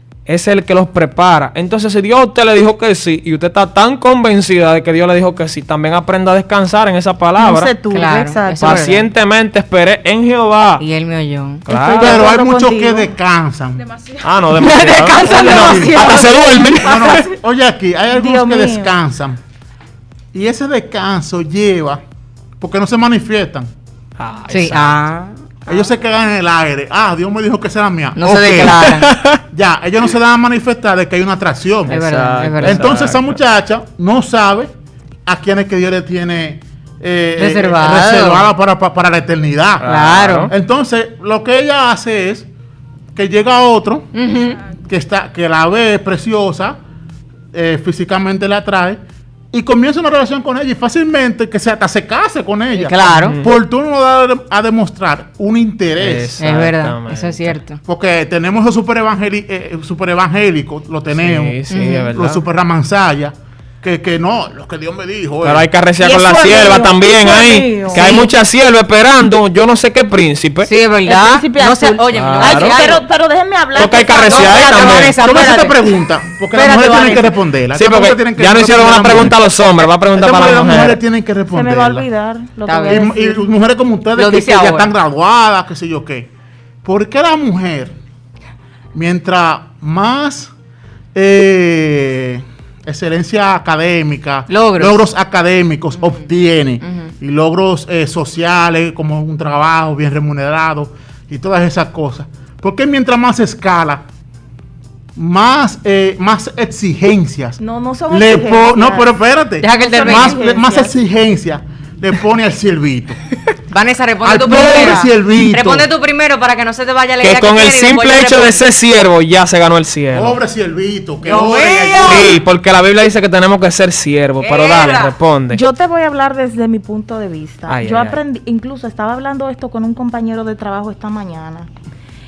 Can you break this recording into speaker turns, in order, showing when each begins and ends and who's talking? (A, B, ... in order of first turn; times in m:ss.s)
0:00.3-0:07.7 A
0:07.4-0:08.9 B
0:07.9-0:09.1 C
0:08.6-0:10.8 A
0:10.8-0:11.6 C
0:11.7-0:12.2 A
0:11.7-0:13.1 B
0:12.0-0:13.9 D
0:14.2-0:17.3 A
0:14.5-0:16.4 C
0:14.9-0:16.7 B
0:15.2-0:16.0 D
0:16.8-0:19.4 D
0:18.1-0:18.9 B
0:20.3-0:22.0 D
0:22.6-0:23.7 D
0:24.2-0:25.0 A
0:24.5-0:25.7 C
0:25.7-0:32.0 D
0:28.2-0:29.2 C
0:31.9-0:33.0 C
0:31.9-0:33.4 A
0:32.6-0:34.7 D
0:35.3-0:39.9 D
0:37.4-0:38.5 C
0:39.8-0:40.5 A
0:39.8-0:40.5 C
0:40.5-0:42.5 D
0:43.2-0:44.1 D
0:44.1-0:44.6 C
0:44.7-0:46.8 D
0:47.5-0:49.0 D
0:49.5-0:56.3 D
0:52.8-0:53.4 C
0:53.1-0:53.5 A
0:56.0-0:57.6 A
0:56.4-0:57.8 C
0:57.9-1:05.7 D
1:01.2-1:02.4 A
1:01.7-1:02.1 C
1:05.4-1:10.7 A
1:06.0-1:08.3 B
1:07.9-1:08.2 C
1:10.6-1:13.0 C
1:11.1-1:15.0 B
1:12.1-1:12.8 A
1:13.8-1:15.2 A
1:14.2-1:15.8 C
1:15.2-1:19.4 D
1:16.5-1:17.3 C
1:17.7-1:21.0 A
1:20.1-1:22.1 D
1:21.5-1:23.5 B
1:22.7-1:23.1 C
1:22.9-1:26.3 D
1:24.2-1:24.9 C
1:26.8-1:28.0 D
1:28.9-1:30.5 D
1:31.1-1:44.0 D
1:34.5-1:35.1 C
1:36.8-1:37.1 C
1:45.2-1:47.6 D
1:47.6-1:49.1 B
1:48.1-1:53.2 D
1:49.6-1:50.4 C
1:49.6-1:50.9 B
1:53.7-1:58.6 C
1:54.2-1:55.9 D
1:57.2-2:00.4 A
2:00.1-2:02.4 D
2:01.2-2:02.4 C
2:02.0-2:05.6 A
2:04.4-2:05.2 C
2:05.5-2:11.7 B
2:07.7-2:08.2 A